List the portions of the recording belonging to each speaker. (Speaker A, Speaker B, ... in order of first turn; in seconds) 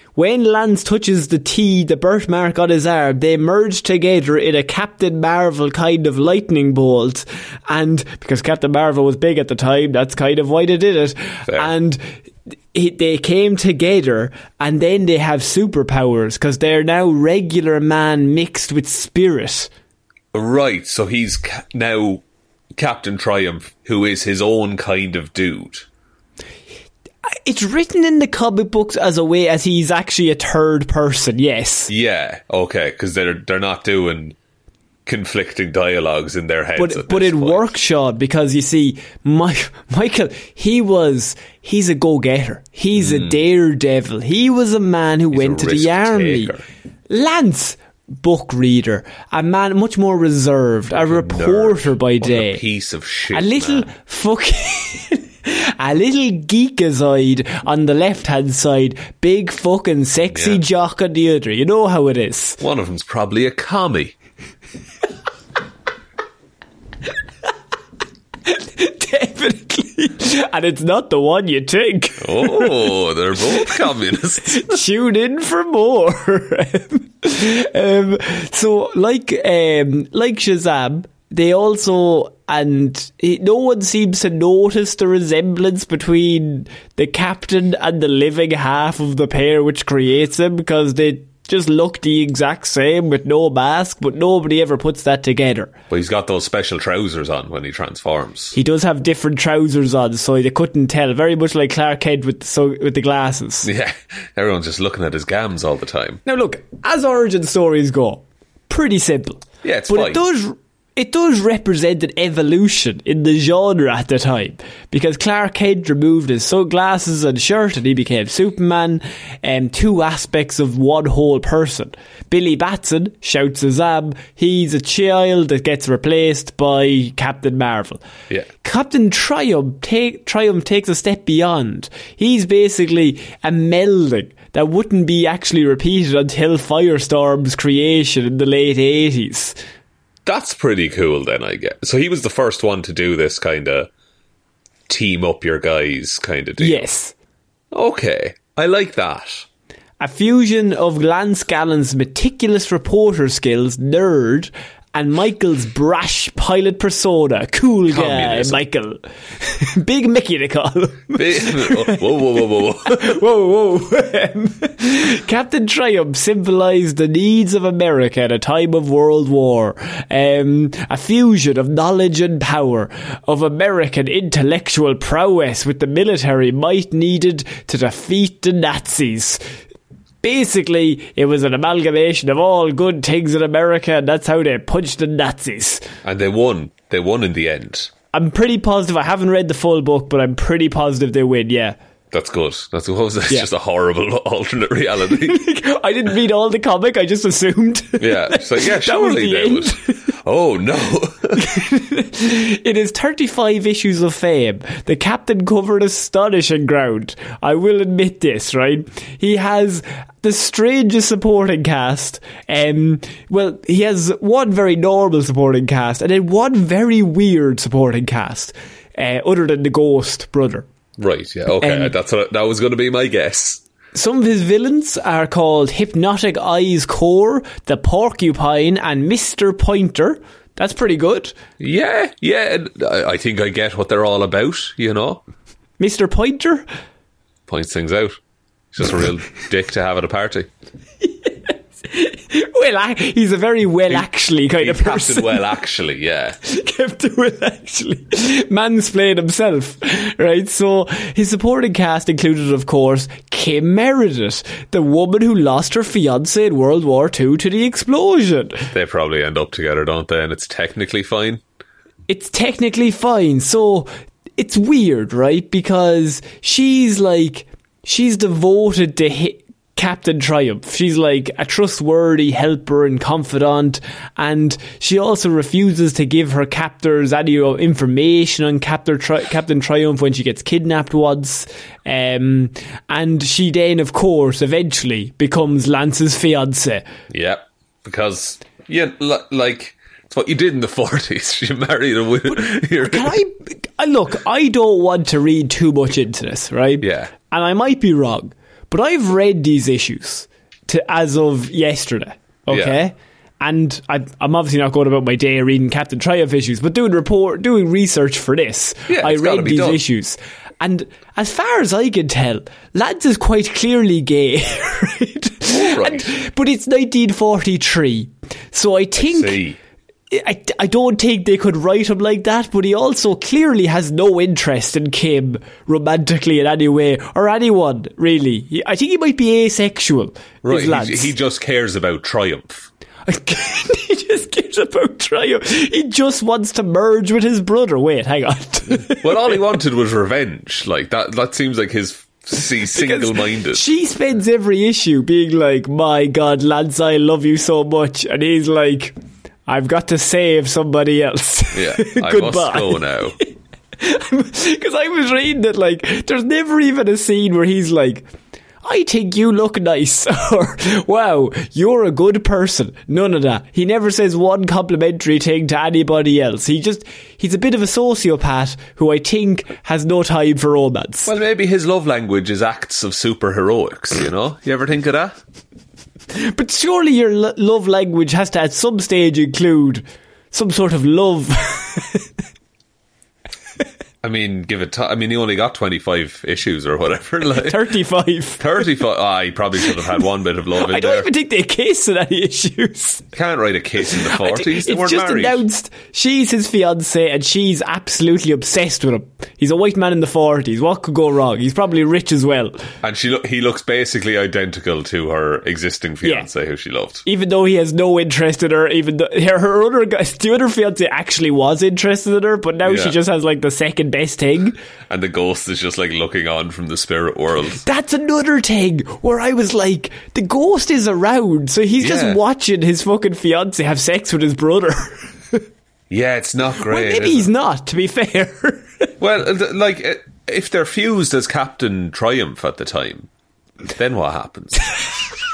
Speaker A: 0.2-12.0, 12.7-19.7, 27.3-31.9, 36.8-46.5, 47.1-52.6, 53.3-62.6, 68.5-72.9, 74.5-95.7, 98.5-103.7, 106.3-128.0, 128.6-139.6, 146.6-147.1, 150.0-162.2, 162.9-179.4, 180.2-185.8, 188.1-191.8, 195.1-200.0, 201.4-220.7, 221.6-221.9, 223.9-231.3, 235.8-236.7, 241.1-245.4, 246.4-258.7, 262.1-286.9, 292.8-319.4, 320.1-331.1, 333.1-339.3, 342.7-348.9, 349.5-353.3, 353.8-358.1, 358.6-371.1, 376.1-382.1, 387.4-388.4, 390.6-393.0, 394.0-402.6, 406.0-406.3, 407.1-414.6, 417.6-425.4, 426.7-428.9
Speaker B: 20.3-25.9, 31.9-34.4, 35.1-37.7, 43.0-43.4, 45.3-46.6, 50.9-53.9, 60.3-60.6, 62.6-64.1, 72.2-74.8, 95.9-98.5, 103.6-106.2, 109.6-110.2, 140.2-143.9, 144.9-146.9, 147.7-149.5, 157.9-158.6, 161.1-163.2, 186.0-187.9, 192.1-195.4, 198.0-201.6, 221.0-223.6, 231.6-235.2, 237.5-238.2, 238.7-240.5, 243.9-246.4, 258.7-261.4, 287.1-293.2, 296.8-297.1, 302.5-302.8, 308.9-309.8, 315.5-316.1, 319.0-319.6, 330.4-332.7, 339.0-343.6, 351.5-353.2, 371.1-375.2, 384.0-387.7, 388.4-391.1, 393.1-395.4, 402.8-407.1, 412.6-413.0, 414.9-417.6, 421.8-422.2, 425.9-427.3, 429.0-433.1, 433.7-434.7